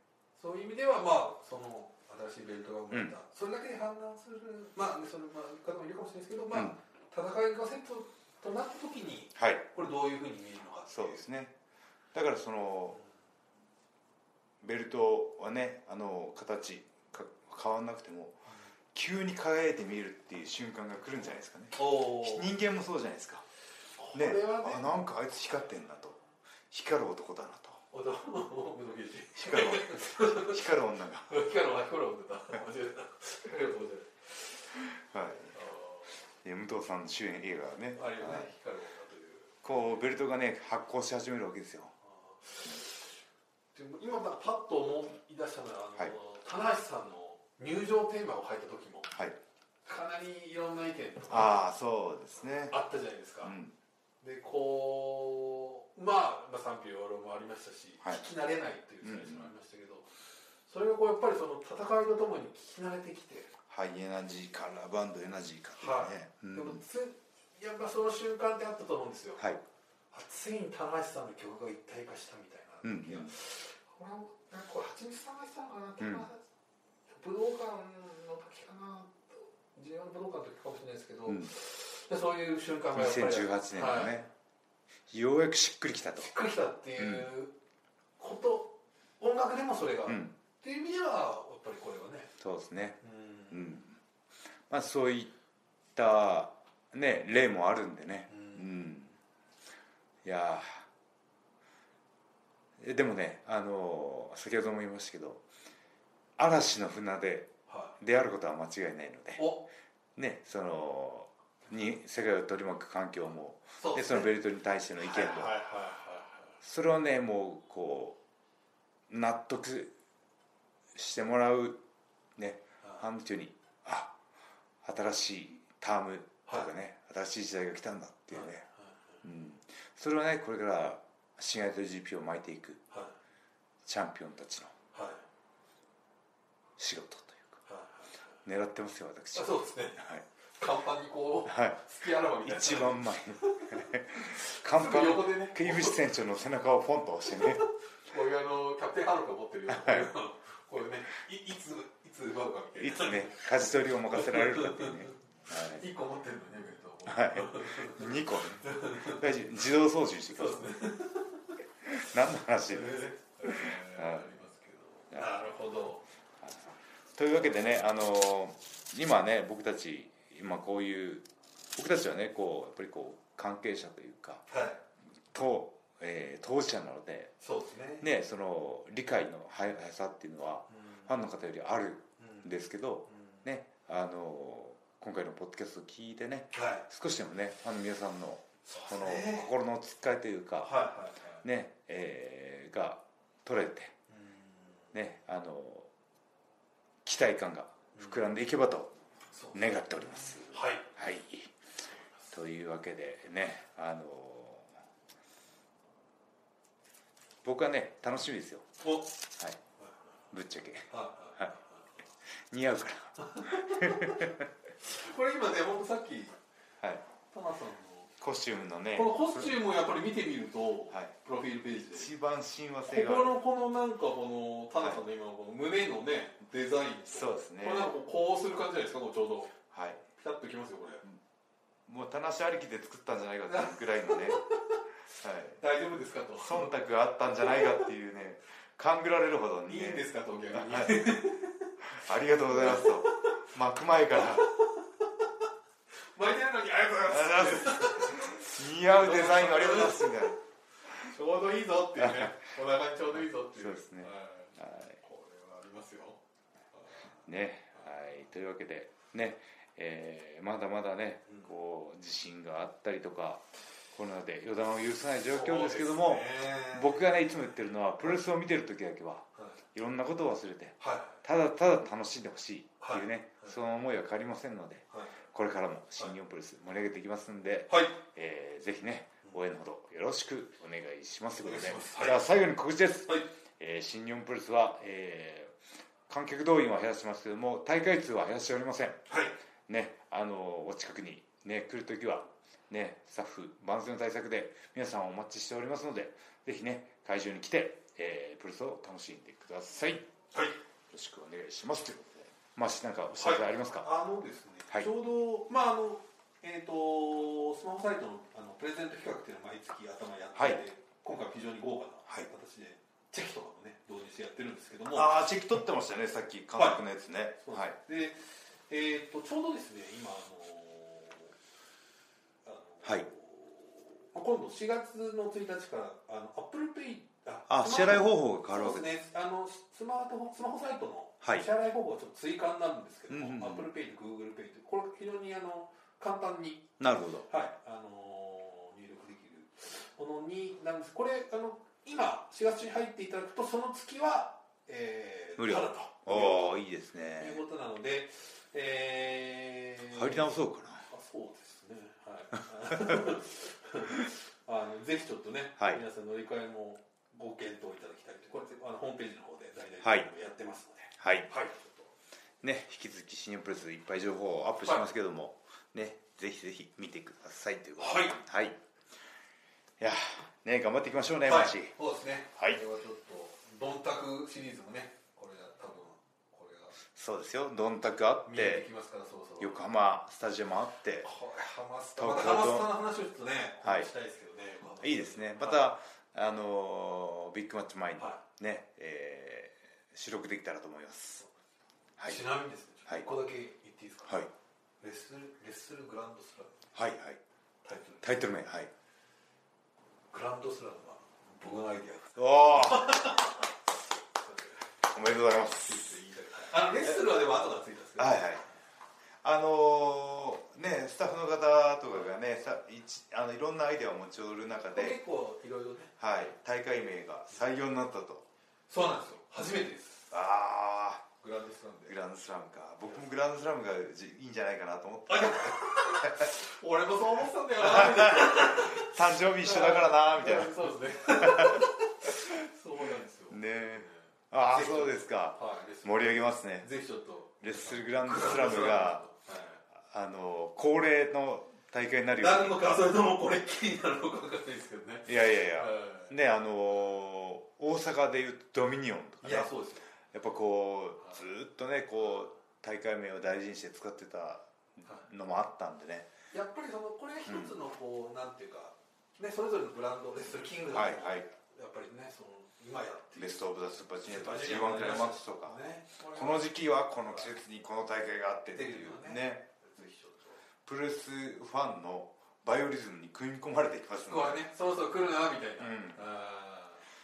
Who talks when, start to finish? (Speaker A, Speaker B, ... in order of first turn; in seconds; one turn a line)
Speaker A: 0.4-11.3
Speaker B: 9.4-9.7
Speaker B: 10.9-11.6
Speaker B: 12.1-13.0
Speaker B: 14.6-18.4
Speaker B: 18.9-23.5
Speaker A: 21.8-22.5
Speaker A: 24.0-25.0
Speaker B: 24.1-27.8
Speaker A: 27.9-30.6
Speaker B: 29.4-31.5
Speaker A: 31.3-34.9
Speaker B: 35.0-35.6
Speaker A: 35.5-36.2
Speaker B: 36.4-38.5
Speaker A: 38.0-40.0
Speaker B: 39.6-41.9
Speaker A: 42.1-43.2
Speaker A: 43.7-49.1
Speaker B: 49.1-49.4
Speaker A: 49.9-51.6
Speaker B: 51.3-52.8
Speaker A: 52.7-53.6
Speaker B: 53.4-53.8
Speaker A: 54.2-63.5
Speaker B: 59.0-59.5
Speaker B: 63.7-66.8
Speaker A: 65.8-69.4
Speaker A: 70.1-76.5
Speaker B: 72.8-73.3
Speaker B: 76.0-76.3
Speaker A: 77.1-84.3
Speaker B: 82.9-84.3
Speaker B: 85.1-86.3
Speaker A: 86.2-87.5
Speaker B: 87.0-87.3
Speaker A: 88.2-92.3
Speaker B: 90.1-90.3
Speaker B: 92.4-93.0
Speaker A: 93.0-93.8
Speaker B: 93.5-94.0
Speaker B: 94.7-95.3
Speaker B: 96.0-99.1
Speaker A: 98.3-98.9
Speaker B: 100.2-100.9
Speaker B: 102.8-105.4
Speaker B: 106.4-109.5
Speaker A: 107.7-108.0
Speaker A: 109.4-109.7
Speaker B: 110.2-115.5
Speaker A: 113.8-114.3
Speaker A: 115.0-116.6
Speaker B: 116.6-118.2
Speaker B: 119.1-120.0
Speaker B: 120.9-121.8
Speaker B: 122.4-124.2
Speaker B: 124.8-128.7
Speaker A: 128.3-128.9
Speaker B: 129.2-132.8
Speaker B: 133.8-134.7
Speaker A: 134.9-135.2
Speaker B: 136.8-137.6
Speaker A: 137.7-138.4
Speaker B: 138.4-140.2
Speaker A: 139.3-140.1
Speaker A: 140.6-146.0
Speaker B: 141.5-141.8
Speaker B: 142.4-147.7
Speaker A: 147.3-153.5
Speaker B: 149.7-150.1
Speaker B: 152.8-155.9
Speaker A: 154.1-159.4
Speaker B: 157.1-160.7
Speaker A: 160.3-161.4
Speaker B: 161.8-164.3
Speaker A: 162.7-166.0
Speaker B: 166.4-174.4
Speaker A: 174.5-174.8
Speaker B: 175.3-177.3
Speaker A: 177.4-178.1
Speaker B: 178.0-190.7
Speaker A: 186.5-186.8
Speaker A: 188.7-189.5
Speaker A: 190.6-191.4
Speaker B: 191.4-193.9
Speaker A: 194.1-194.8
Speaker B: 194.9-195.9
Speaker B: 197.0-198.9
Speaker A: 199.3-200.9
Speaker B: 199.5-201.6
Speaker A: 202.0-202.3
Speaker B: 202.3-204.7
Speaker B: 207.4-208.7
Speaker A: 208.8-209.1
Speaker B: 210.3-211.5
Speaker A: 210.9-211.9
Speaker B: 212.5-214.4
Speaker A: 213.2-216.4
Speaker A: 217.3-218.1
Speaker B: 218.2-219.6
Speaker A: 218.9-222.1
Speaker B: 221.9-223.4
Speaker A: 222.9-229.6
Speaker B: 227.1-227.9
Speaker B: 229.7-230.0
Speaker A: 230.1-231.1
Speaker B: 231.9-234.4
Speaker A: 233.5-234.6
Speaker B: 235.1-235.6
Speaker A: 235.6-236.7
Speaker B: 236.4-241.2
Speaker A: 237.5-237.8
Speaker A: 239.7-241.7
Speaker B: 241.9-244.5
Speaker A: 242.3-243.4
Speaker A: 244.1-245.1
Speaker A: 246.1-250.2
Speaker B: 247.1-250.4
Speaker A: 250.9-256.2
Speaker B: 252.0-252.3
Speaker B: 253.2-255.0
Speaker A: 256.7-257.1
Speaker B: 257.2-285.5
Speaker A: 265.3-267.2
Speaker A: 270.8-271.2
Speaker A: 272.8-273.5
Speaker A: 274.9-275.2
Speaker A: 277.7-278.0
Speaker A: 281.4-282.3
Speaker B: 286.1-289.0
Speaker A: 289.1-289.4
Speaker B: 289.7-300.1
Speaker B: 300.9-303.9
Speaker A: 303.1-315.2
Speaker B: 310.4-310.6
Speaker B: 314.9-317.8
Speaker A: 316.6-316.8
Speaker A: 317.4-321.3
Speaker A: 322.4-336.7
Speaker B: 327.5-328.9
Speaker B: 333.1-333.7
Speaker B: 336.8-337.3
Speaker A: 337.3-346.6
Speaker B: 345.4-347.4
Speaker A: 347.2-350.3
Speaker B: 349.9-350.9
Speaker A: 350.9-361.9
Speaker B: 352.7-353.0
Speaker B: 359.8-360.1
Speaker B: 361.0-361.3
Speaker B: 362.4-368.6
Speaker A: 367.8-368.2
Speaker B: 369.8-371.7
Speaker A: 371.3-376.8
Speaker B: 376.9-378.7
Speaker A: 378.2-379.6
Speaker B: 379.4-381.1
Speaker A: 381.0-385.7
Speaker B: 382.0-382.7
Speaker B: 383.6-383.9
Speaker B: 384.8-391.2
Speaker A: 392.1-394.3
Speaker A: 394.8-396.7
Speaker B: 396.8-397.2
Speaker A: 397.6-398.3
Speaker B: 398.0-398.7
Speaker A: 400.1-403.5
Speaker B: 402.2-403.1
Speaker A: 404.2-404.7
Speaker B: 404.9-405.9
Speaker A: 405.4-408.5
Speaker B: 408.0-408.5
Speaker B: 409.2-415.0
Speaker A: 414.7-416.0
Speaker B: 416.0-418.3
Speaker A: 418.7-420.1
Speaker B: 420.1-421.1
Speaker A: 421.2-422.0
Speaker B: 421.9-426.3
Speaker A: 425.1-439.6
Speaker B: 427.6-430.5
Speaker B: 431.1-432.3
Speaker B: 433.3-436.7
Speaker B: 437.4-439.1
Speaker B: 439.8-442.6
Speaker A: 442.2-446.1
Speaker B: 445.1-449.5
Speaker A: 449.2-449.9
Speaker B: 450.1-456.1
Speaker A: 456.3-466.5
Speaker B: 460.7-461.3
Speaker B: 463.2-469.5
Speaker A: 467.1-467.3
Speaker A: 468.5-470.4
Speaker B: 470.6-474.5
Speaker A: 474.1-476.8
Speaker B: 475.6-476.1